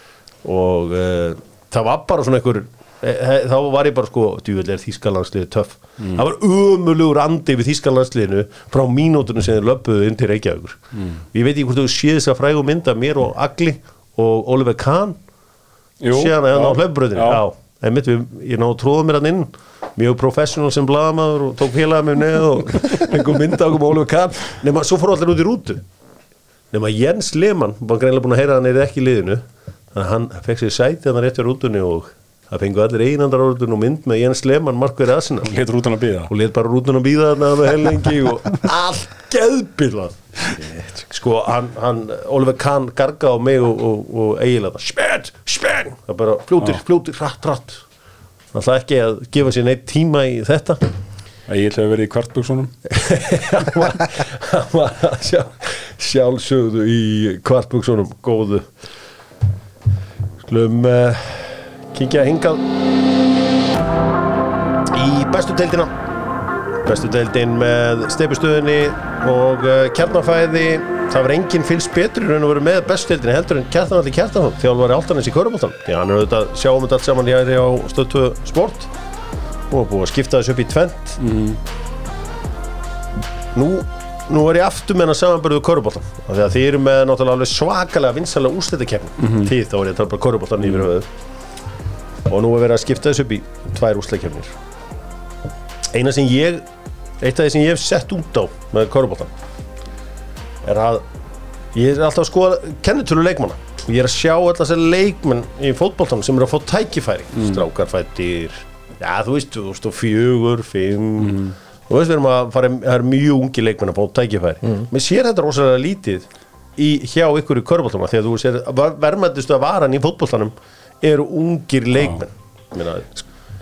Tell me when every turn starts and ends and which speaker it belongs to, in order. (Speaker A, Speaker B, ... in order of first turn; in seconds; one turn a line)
Speaker A: 0.4-10.8
Speaker A: 11.3-15.2
Speaker B: 16.0-17.4
Speaker A: 16.1-25.8
Speaker A: 26.7-35.5
Speaker B: 35.4-36.3
Speaker A: 36.3-40.2
Speaker A: 41.1-47.8
Speaker A: 48.5-50.8
Speaker B: 51.5-52.7
Speaker A: 52.9-58.7
Speaker A: 60.4-62.7
Speaker A: 64.9-65.9
Speaker A: 66.8-78.9
Speaker A: 79.7-81.2
Speaker B: 81.2-81.6
Speaker A: 83.5-91.1
Speaker B: 89.2-89.5
Speaker A: 92.3-94.5
Speaker A: 95.9-96.6
Speaker A: 97.2-99.3
Speaker A: 100.6-101.0
Speaker A: 101.7-123.2
Speaker B: 111.2-111.5